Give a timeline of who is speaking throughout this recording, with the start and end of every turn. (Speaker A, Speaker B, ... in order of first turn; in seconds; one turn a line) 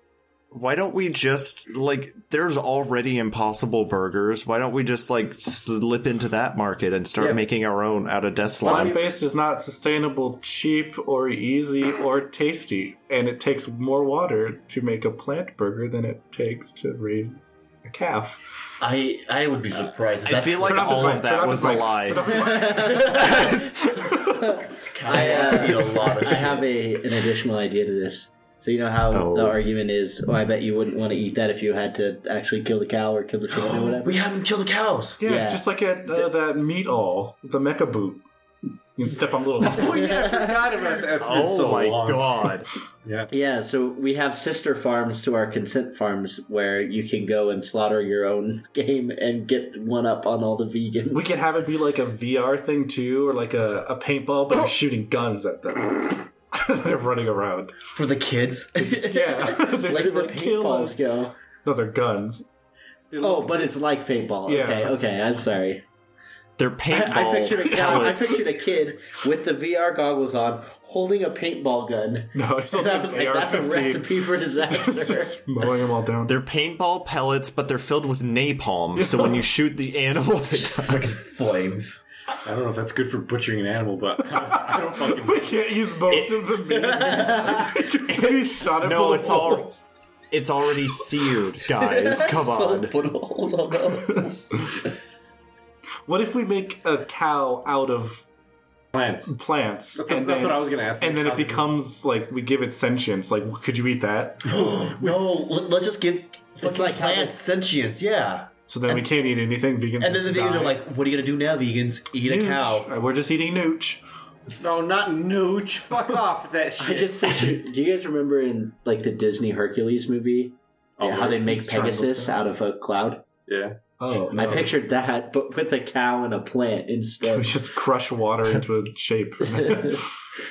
Speaker A: 0.5-9.0
Speaker B: 8.6-18.4
Speaker C: 18.8-21.3
Speaker A: 20.2-22.3
Speaker B: 20.6-24.5
Speaker D: 22.3-23.5
Speaker C: 22.9-23.6
Speaker D: 24.3-34.2
Speaker C: 24.7-26.7
Speaker A: 29.1-29.6
Speaker C: 33.5-35.2
Speaker B: 35.2-38.2
Speaker D: 35.2-36.3
Speaker B: 39.0-40.3
Speaker E: 39.8-42.5
Speaker D: 39.9-40.7
Speaker A: 41.2-42.7
Speaker E: 43.0-43.3
Speaker D: 43.3-51.3
Speaker B: 51.1-57.8
Speaker C: 57.9-59.7
Speaker B: 58.8-61.0
Speaker D: 59.8-61.3
Speaker B: 61.6-62.5
Speaker E: 63.1-63.7
Speaker D: 63.2-65.8
Speaker B: 64.5-65.0
Speaker A: 66.6-68.4
Speaker D: 66.9-75.4
Speaker B: 72.3-76.4
Speaker A: 76.2-81.1
Speaker B: 79.0-79.5
Speaker C: 80.5-82.0
Speaker E: 82.4-86.3
Speaker B: 84.2-89.8
Speaker C: 86.7-87.7
Speaker D: 87.5-87.7
Speaker A: 88.8-89.7
Speaker A: 90.3-93.0
Speaker C: 91.8-94.6
Speaker B: 96.1-98.3
Speaker E: 98.9-99.3
Speaker B: 99.3-104.7
Speaker E: 100.0-101.7
Speaker C: 104.4-109.1
Speaker D: 106.6-107.4
Speaker B: 108.7-110.8
Speaker C: 110.0-112.9
Speaker B: 112.2-114.0
Speaker E: 114.6-117.5
Speaker D: 116.8-123.2
Speaker E: 121.0-121.9
Speaker B: 121.7-122.3
Speaker E: 123.5-123.8
Speaker B: 124.0-124.7
Speaker D: 124.3-127.5
Speaker B: 127.2-130.1
Speaker D: 129.6-129.9